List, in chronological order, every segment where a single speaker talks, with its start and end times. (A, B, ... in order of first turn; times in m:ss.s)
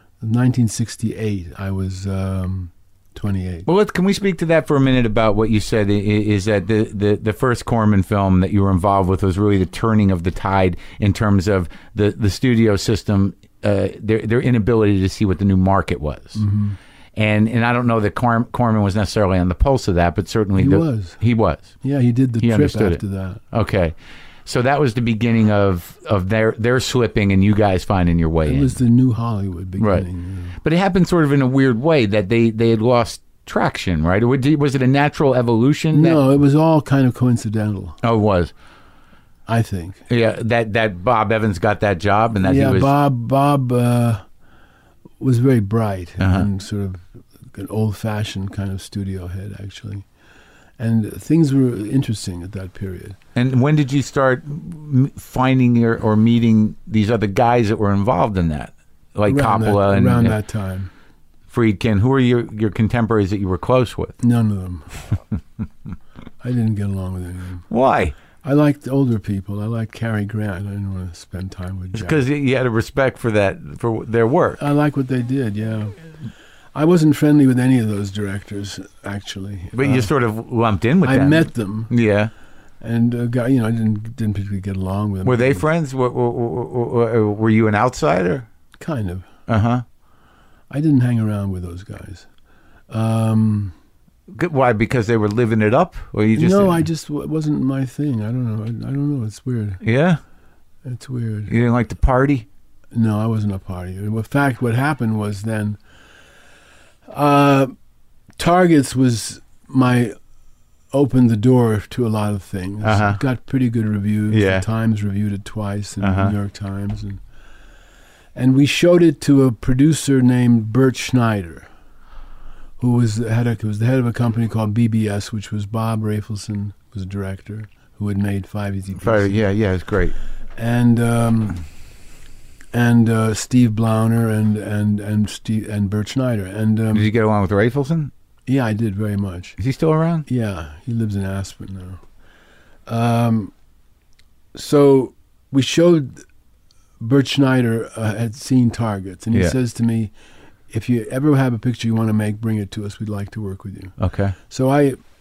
0:00.2-0:03.6 A
0:03.6-0:16.4 B
0:16.3-0:16.8 A
0:17.2-0:21.7 B
0:20.6-0:21.2 A
0:21.8-0:23.4 A
0:22.4-0:23.0 B
0:23.5-0:23.9 B
0:24.4-0:28.7 B
0:28.4-0:30.6 A
0:29.8-0:30.0 B
0:30.6-0:36.2 B
0:35.9-0:38.0 A
0:38.0-0:38.5 B
0:39.4-0:40.0 A
0:40.1-0:42.9 B
0:42.4-0:44.2 A
0:45.2-0:50.0 A
0:46.2-0:46.4 B
0:50.8-0:53.2 A
0:53.3-1:00.4 B
0:59.3-1:00.9 A
1:01.5-1:04.1 B
1:04.2-1:05.1 A
1:06.4-1:07.6 A
1:07.7-1:08.1 B
1:08.4-1:12.2 A
1:11.9-1:14.6 B
1:14.6-1:16.1 A
1:16.7-1:20.1 A
1:19.7-1:22.3 B
1:21.0-1:21.9 A
1:22.8-1:25.6 A
1:25.2-1:28.5 B
1:28.8-1:29.3 A
1:29.5-1:29.8 B
1:30.7-1:32.3 A
1:32.9-1:33.7 A
1:34.3-1:36.8 B
1:36.3-1:39.8 A
1:39.8-1:40.2 B
1:40.8-1:41.5 A
1:41.5-1:42.5 B
1:42.9-1:45.8 A
1:47.1-1:47.7 A
1:48.4-1:50.1 A
1:50.9-1:57.2 A
1:52.8-1:53.2 B
1:54.3-1:54.6 B
1:56.0-1:56.3 B
1:58.3-2:01.7 A
2:02.8-2:09.4 A
2:09.0-2:10.2 B
2:10.6-2:11.6 A
2:12.7-2:17.1 A
2:16.9-2:18.1 B
2:18.5-2:19.6 A
2:19.6-2:20.2 B
2:20.3-2:22.0 A
2:22.9-2:23.5 A
2:24.5-2:26.2 A
2:27.0-2:30.1 A
2:30.7-2:34.0 A
2:34.0-2:34.4 B
2:34.5-2:35.0 A